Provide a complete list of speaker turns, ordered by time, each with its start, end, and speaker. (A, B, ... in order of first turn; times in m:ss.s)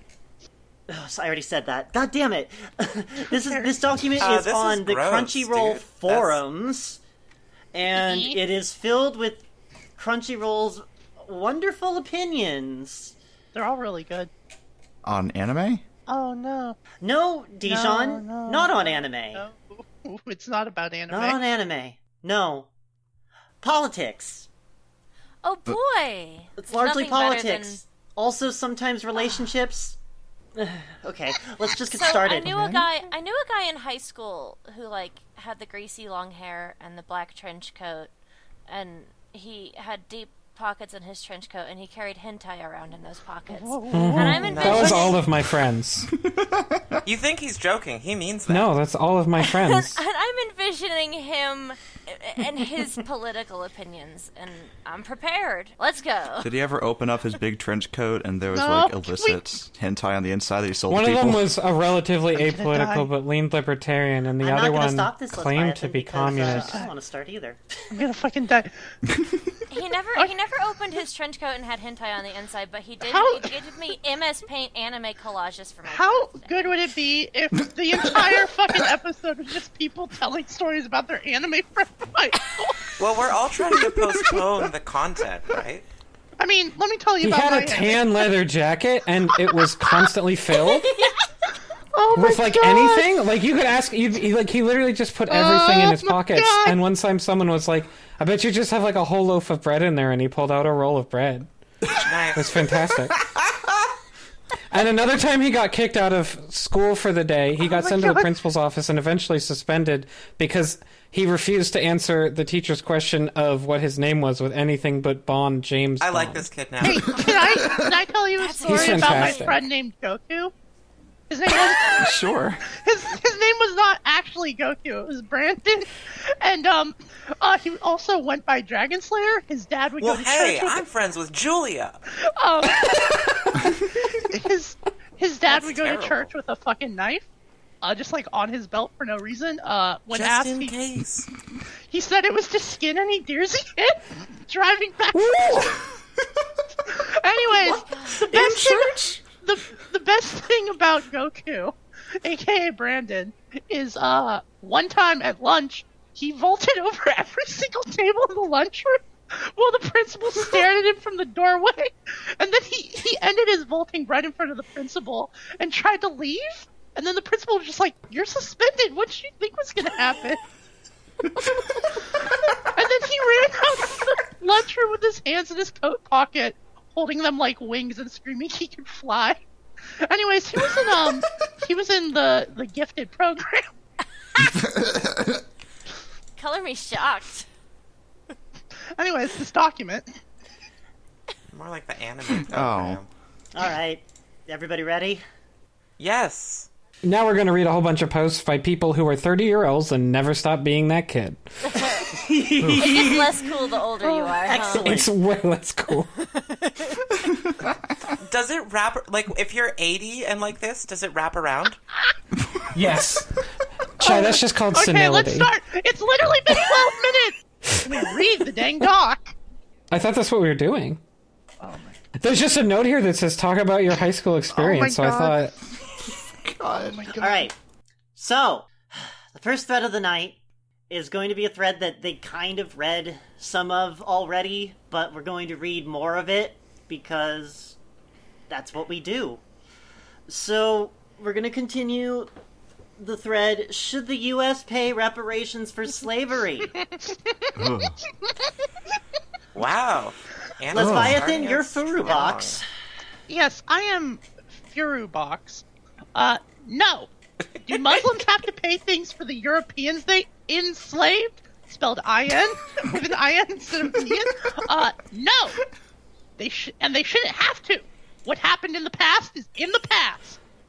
0:00.9-0:07.0 A
0:03.3-0:03.8 B
0:04.2-0:06.4 C
0:07.7-0:09.5 A
0:08.0-0:08.4 B
0:10.0-0:13.2 A
0:13.5-0:14.3 B
0:15.0-0:15.8 D
0:16.1-0:16.8 B
0:17.0-0:19.5 A
0:17.6-0:21.4 B
0:21.1-0:22.7 A
0:23.6-0:24.5 A
0:25.4-0:27.8 E
0:26.6-0:30.0 A
0:30.6-0:32.8 A
0:31.9-0:38.1 E
0:38.7-0:45.2 E
0:43.5-0:45.2 B
0:43.9-0:46.1 F
0:44.5-0:45.1 C
0:46.1-0:47.0 D
0:47.1-0:48.7 C
0:48.5-0:50.0 F
0:49.4-0:56.5 E
0:56.4-1:01.5 D
0:58.5-0:59.4 B
1:00.9-1:06.7 F
1:02.3-1:03.1 B
1:04.4-1:07.6 A
1:06.4-1:06.9 B
1:07.9-1:08.7 B
1:09.7-1:16.8 E
1:13.0-1:13.6 B
1:15.9-1:23.0 B
1:23.0-1:25.8 C
1:23.7-1:24.6 B
1:26.4-1:28.3 B
1:27.2-1:31.0 F
1:29.3-1:31.1 B
1:31.9-1:33.1 B
1:32.1-1:41.5 F
1:35.3-1:36.8 B
1:42.0-1:42.7 C
1:42.4-1:43.2 F
1:44.7-1:56.5 F
1:47.6-1:48.4 B
1:56.0-1:57.4 C
1:56.8-2:00.5 B
1:58.4-1:59.6 E
1:58.6-1:59.6 F
2:01.3-2:10.8 B
2:01.8-2:02.6 D
2:10.0-2:12.0 C
2:12.1-2:17.3 B
2:15.5-2:16.3 C
2:17.8-2:20.8 B
2:20.1-2:21.3 C
2:21.9-2:25.8 B
2:25.1-2:25.8 F
2:26.9-2:50.4 B
2:27.9-2:28.3 E
2:28.1-2:29.2 D
2:51.9-2:59.4 B
3:00.0-3:03.7 B
3:04.7-3:05.1 D
3:06.4-3:07.5 E
3:09.0-3:10.1 B
3:11.5-3:13.1 C
3:12.4-3:13.0 D
3:13.5-3:15.2 A
3:16.0-3:16.7 C
3:17.0-3:21.4 F
3:21.8-3:23.5 A
3:22.6-3:23.0 D
3:22.8-3:25.0 E
3:24.0-3:24.7 B
3:24.4-3:25.1 A
3:24.8-3:26.1 F
3:28.2-3:31.8 C
3:32.7-3:33.4 F
3:34.0-3:35.5 F
3:34.0-3:39.3 B
3:39.9-3:41.0 F
3:41.6-3:42.0 B
3:42.2-3:45.6 F
3:44.5-3:45.4 B
3:45.9-3:47.1 D
3:46.7-3:47.5 B
3:47.2-3:47.5 A
3:48.2-3:50.4 A
3:50.9-3:57.8 A
3:58.5-3:59.4 A
4:00.3-4:02.3 A
4:03.0-4:06.8 A
4:06.9-4:07.5 B
4:07.6-4:08.0 D
4:09.6-4:12.6 C
4:10.7-4:12.6 A
4:10.8-4:11.3 D
4:13.3-4:17.1 B
4:17.6-4:25.6 B
4:26.4-4:30.4 B